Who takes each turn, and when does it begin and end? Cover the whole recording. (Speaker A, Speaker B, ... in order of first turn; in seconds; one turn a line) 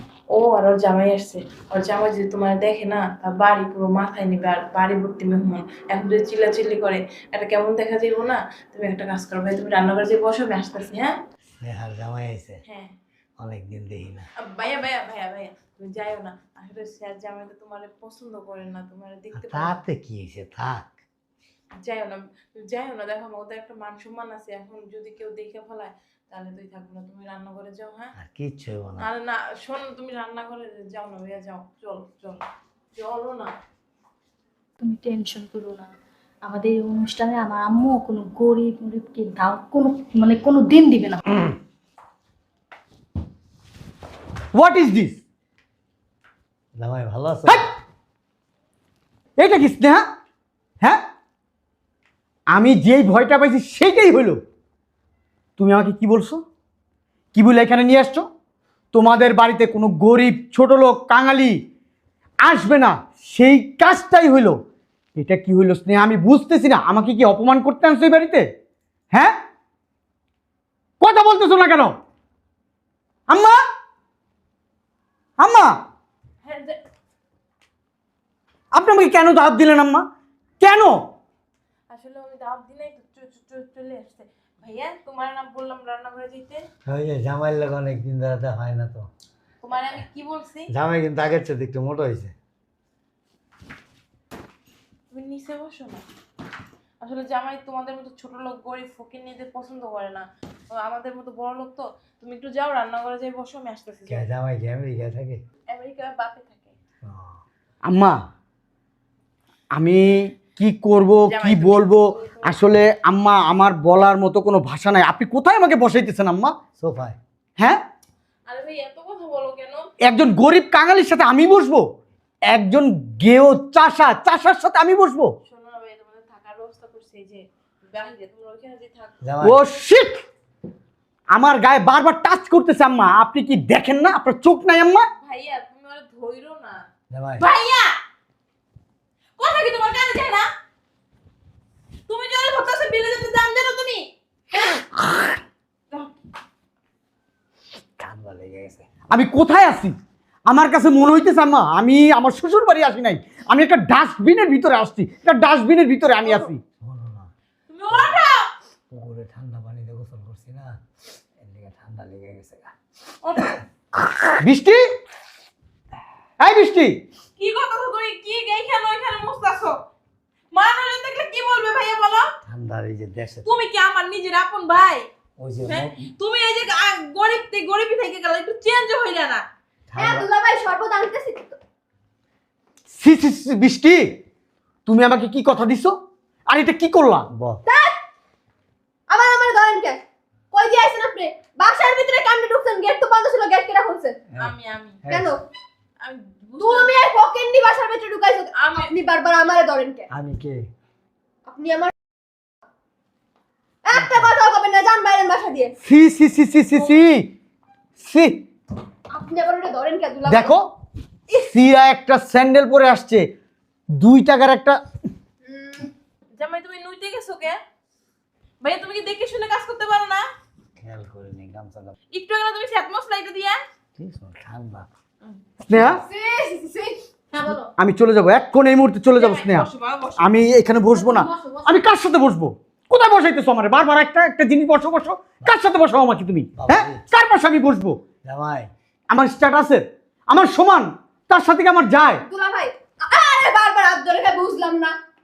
Speaker A: 0.3-11.2
Speaker B: 11.6-12.6
Speaker A: 12.6-12.9
Speaker B: 13.4-14.2
Speaker A: 14.5-19.7
Speaker B: 19.4-20.9
Speaker A: 21.8-28.1
Speaker B: 28.2-29.1
Speaker A: 29.0-33.5
Speaker C: 34.8-35.9
Speaker C: 36.4-41.2
Speaker D: 44.5-45.2
Speaker B: 46.8-47.6
Speaker D: 49.4-50.0
Speaker D: 52.5-54.4
Speaker D: 55.6-56.4
Speaker D: 57.3-58.2
Speaker D: 58.9-61.6
Speaker D: 62.4-64.6
Speaker D: 65.2-68.5
Speaker D: 71.0-72.0
Speaker D: 73.3-73.6
Speaker D: 75.4-75.8
Speaker A: 76.4-76.8
Speaker D: 78.7-80.0
Speaker D: 80.6-81.0
Speaker A: 81.9-86.6
Speaker B: 86.9-89.1
Speaker A: 89.6-90.7
Speaker B: 90.7-92.3
Speaker A: 95.1-96.0
Speaker A: 97.0-104.3
Speaker B: 104.1-105.4
Speaker A: 105.7-106.7
Speaker B: 107.0-107.4
Speaker D: 107.8-108.2
Speaker D: 109.7-116.5
Speaker A: 111.3-112.6
Speaker B: 116.8-117.2
Speaker D: 117.6-117.8
Speaker A: 118.5-119.9
Speaker D: 120.0-121.8
Speaker D: 122.5-125.3
Speaker A: 125.5-129.2
Speaker B: 129.2-129.6
Speaker D: 129.4-130.2
Speaker D: 131.3-135.1
Speaker A: 135.2-136.8
Speaker B: 137.1-137.4
Speaker A: 137.4-137.9
Speaker A: 139.4-140.4
Speaker A: 142.1-144.1
Speaker B: 148.0-148.9
Speaker D: 149.1-149.9
Speaker D: 150.5-156.6
Speaker B: 156.8-157.3
Speaker A: 157.7-158.5
Speaker B: 158.9-160.8
Speaker B: 161.4-162.7
Speaker A: 163.2-163.6
Speaker D: 164.4-164.8
Speaker D: 166.4-167.0
Speaker A: 167.4-169.8
Speaker A: 170.5-172.3
Speaker B: 172.4-173.4
Speaker A: 173.4-175.1
Speaker B: 175.4-176.0
Speaker A: 175.6-179.4
Speaker B: 180.0-180.2
Speaker E: 180.0-181.6
Speaker D: 182.9-184.2
Speaker D: 184.8-187.3
Speaker B: 187.3-187.6
Speaker E: 187.6-187.9
Speaker E: 189.1-194.2
Speaker A: 194.4-195.0
Speaker B: 195.1-195.3
Speaker E: 195.1-195.4
Speaker A: 196.0-196.9
Speaker E: 196.6-200.1
Speaker A: 198.6-198.9
Speaker B: 200.1-200.7
Speaker E: 201.4-201.9
Speaker E: 203.8-205.7
Speaker B: 204.0-204.3
Speaker D: 205.8-207.3
Speaker D: 208.0-208.4
Speaker E: 209.1-210.5
Speaker D: 210.3-210.7
Speaker D: 211.3-213.3
Speaker D: 213.9-214.8
Speaker E: 215.4-215.9
Speaker A: 216.3-217.6
Speaker A: 218.6-220.2
Speaker B: 220.8-221.9
Speaker A: 222.1-223.6
Speaker B: 224.0-224.9
Speaker D: 225.7-226.0
Speaker E: 225.8-227.0
Speaker A: 227.3-227.7
Speaker D: 227.8-238.0
Speaker A: 229.2-230.3
Speaker C: 231.0-231.8
Speaker B: 236.6-237.0
Speaker B: 238.2-238.7
Speaker D: 239.1-242.2
Speaker E: 242.2-244.9